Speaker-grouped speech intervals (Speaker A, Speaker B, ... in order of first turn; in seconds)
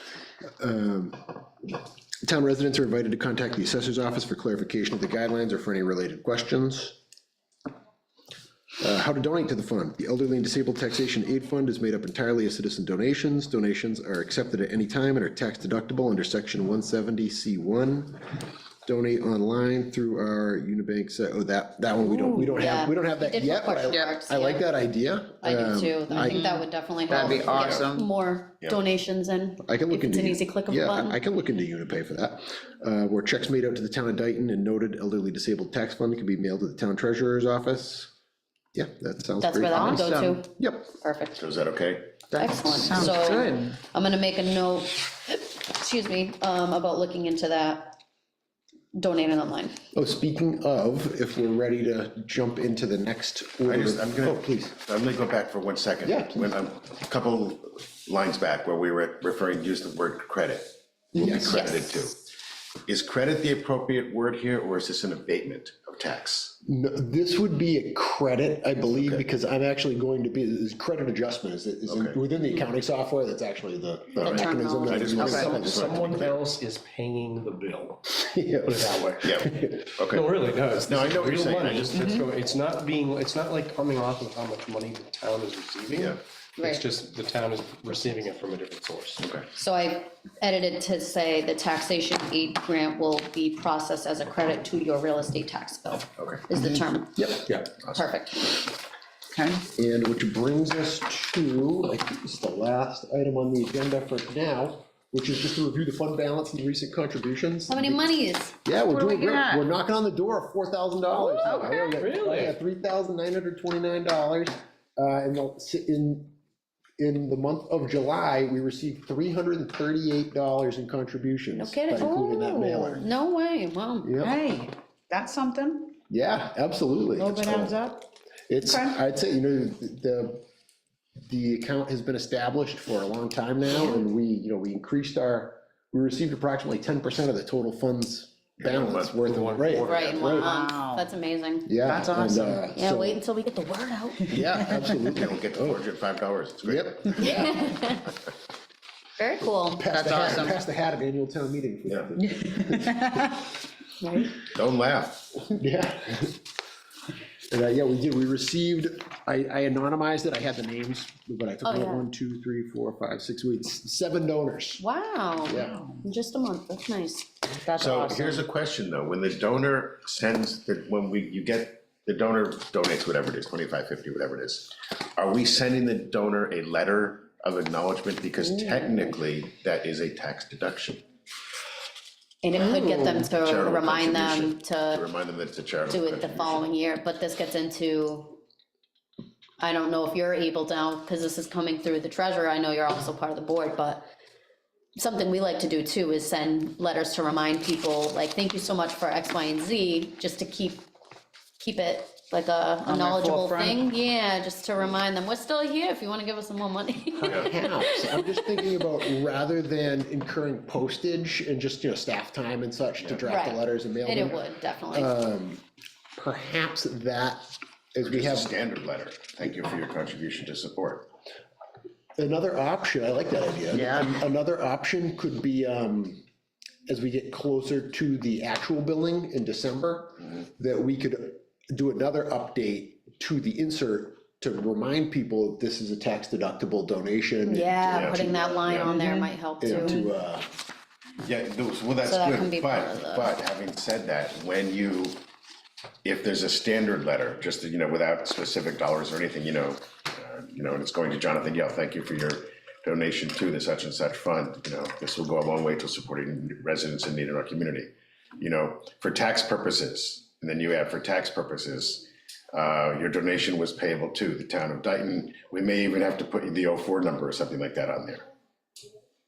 Speaker A: 0.6-1.3, 2.2-7.0, 8.8-18.2, 18.8-26.5, 27.1-27.5, 29.6-38.1, 38.7-40.1, 40.6-40.9, 49.9-54.7, 56.0-56.5, 61.1-61.6, 66.7-76.3, 78.2-79.7, 96.5-97.5, 99.7-108.0, 108.6-116.3, 117.0-123.1, 124.0-124.4, 126.1-127.8, 128.5-130.4, 131.3-140.5, 141.7-143.2, 144.3-145.8, 146.7-147.7, 149.7-153.4, 155.4-156.4, 157.5-164.8, 165.4-165.8, 207.2-215.6, 216.2-218.5, 222.2-226.2, 226.9-238.4, 239.6-240.5
Speaker B: 22.0-22.6, 23.9-24.1, 26.1-28.1, 39.7-40.4, 42.3-43.8, 75.2-75.6, 81.9-82.2, 99.3-99.6, 108.8-109.7, 111.4-112.0, 124.2-125.9, 127.2-128.1, 140.4-141.1, 141.8-142.6, 149.9-150.6, 152.7-153.1, 165.6-165.9, 202.8-203.8, 223.7-224.1
Speaker C: 22.6-24.6, 25.4-31.2, 39.4-41.4, 42.3-48.0, 48.9-49.8, 61.3-62.0, 74.2-75.6, 86.6-86.8, 89.5-98.7, 107.7-108.6, 121.5-122.3, 122.9-124.1, 139.8-141.8, 142.7-144.4, 147.2-148.1, 149.2-149.9, 154.0-154.3, 161.6-162.0, 164.8-168.4, 178.4-179.0, 182.4-185.0, 185.9-188.4, 189.6-194.1, 194.9-200.9, 201.6-208.6, 213.2-215.1, 237.4-240.1, 242.0-243.3
Speaker D: 27.5-27.9, 41.4-42.1, 53.6-62.2, 62.9-66.6, 68.9-69.2, 71.8-72.2, 74.2-76.3, 79.2-82.1, 85.9-86.2, 96.2-96.4, 138.6-139.1, 145.1-147.5, 154.5-155.2, 167.7-181.0, 182.5-186.7, 213.0-213.3, 218.0-221.1, 237.9-238.9, 241.2-245.2, 246.0-268.2
Speaker E: 75.3-79.5, 80.0-89.3, 111.1-112.5, 139.2-140.4